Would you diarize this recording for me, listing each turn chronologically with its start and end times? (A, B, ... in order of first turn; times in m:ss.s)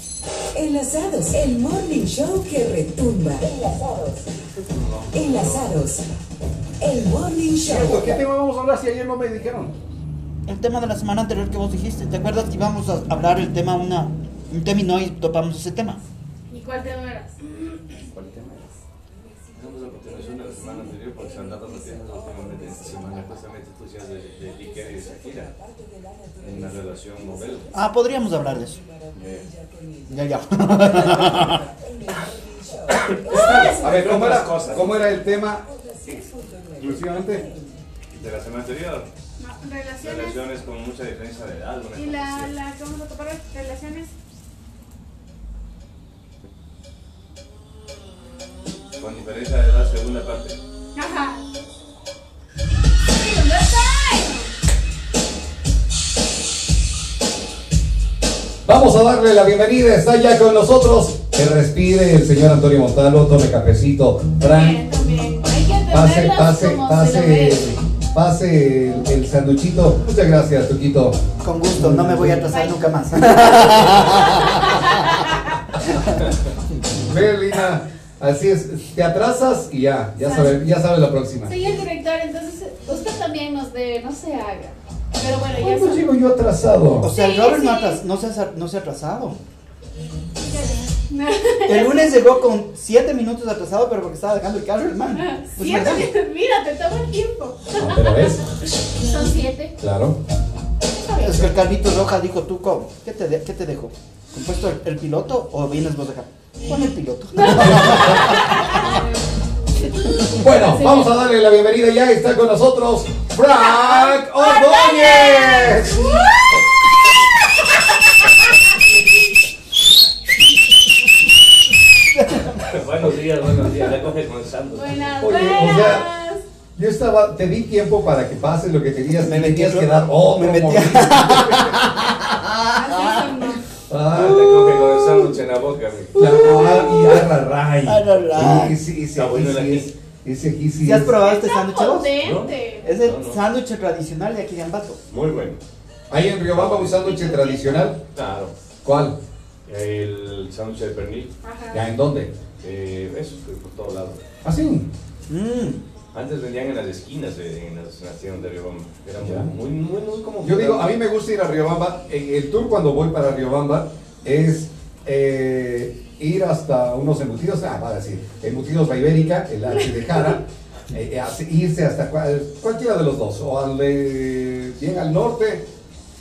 0:00.6-0:04.2 A
0:04.6-0:05.6 B
0:05.1-0:06.1 A
0:06.8-0:08.2 A
0:07.6-0:09.8 C
0:10.5-0:16.0 D
0:16.5-0:17.5 E
0:18.1-0:18.7 C
0:19.5-0:25.5 B
0:26.4-0:27.7 B
0:27.7-0:28.8 D
0:29.1-0:29.5 B
0:30.1-0:31.6 D
0:31.2-0:31.6 A
0:32.9-0:33.8 A
0:33.2-0:34.9 B
0:33.3-0:35.6 C
0:36.1-0:36.7 A
0:36.8-0:37.4 C
0:38.1-0:39.1 B
0:39.4-0:40.4 E
0:40.0-0:42.5 B
0:42.0-0:44.1 E
0:49.0-0:50.6 B
0:51.0-0:51.4 E
0:53.1-0:54.5 E
0:58.7-1:04.8 C
1:04.5-1:07.8 E
1:05.9-1:11.2 C
1:11.4-1:14.5 D
1:11.8-1:12.5 C
1:12.5-1:15.6 E
1:13.5-1:13.8 C
1:17.0-1:21.6 C
1:20.2-1:20.6 E
1:21.5-1:26.1 E
1:25.6-1:27.1 C
1:27.0-1:29.4 D
1:27.0-1:28.0 E
1:30.4-1:32.3 E
1:31.7-1:36.1 D
1:35.2-1:38.3 E
1:37.8-1:38.4 C
1:39.0-1:39.7 E
1:39.8-1:40.2 C
1:41.1-1:41.5 E
1:41.1-1:48.8 D
1:47.3-1:49.2 E
1:47.5-1:48.3 C
1:49.8-1:51.3 E
1:50.3-1:56.3 C
1:53.7-1:56.4 E
2:02.6-2:05.2 B
2:04.7-2:06.4 E
2:05.2-2:06.1 C
2:06.8-2:11.7 C
2:09.1-2:13.3 D
2:12.7-2:13.6 E
2:13.9-2:15.0 C
2:14.1-2:16.2 B
2:16.2-2:21.2 C
2:16.2-2:16.8 E
2:16.2-2:17.2 D
2:17.8-2:18.8 D
2:19.2-2:19.9 B
2:20.8-2:22.2 D
2:21.2-2:22.9 E
2:22.2-2:23.4 B
2:22.8-2:25.0 D
2:25.1-2:25.6 B
2:26.1-2:28.0 C
2:26.5-2:27.2 B
2:27.0-2:27.9 E
2:28.1-2:28.6 B
2:28.8-2:29.2 C
2:29.7-2:31.3 B
2:31.4-2:31.9 E
2:31.7-2:32.3 C
2:32.6-2:34.2 B
2:34.4-2:34.9 C
2:35.3-2:35.8 D
2:36.1-2:41.0 B
2:39.2-2:39.5 C
2:40.4-2:55.7 C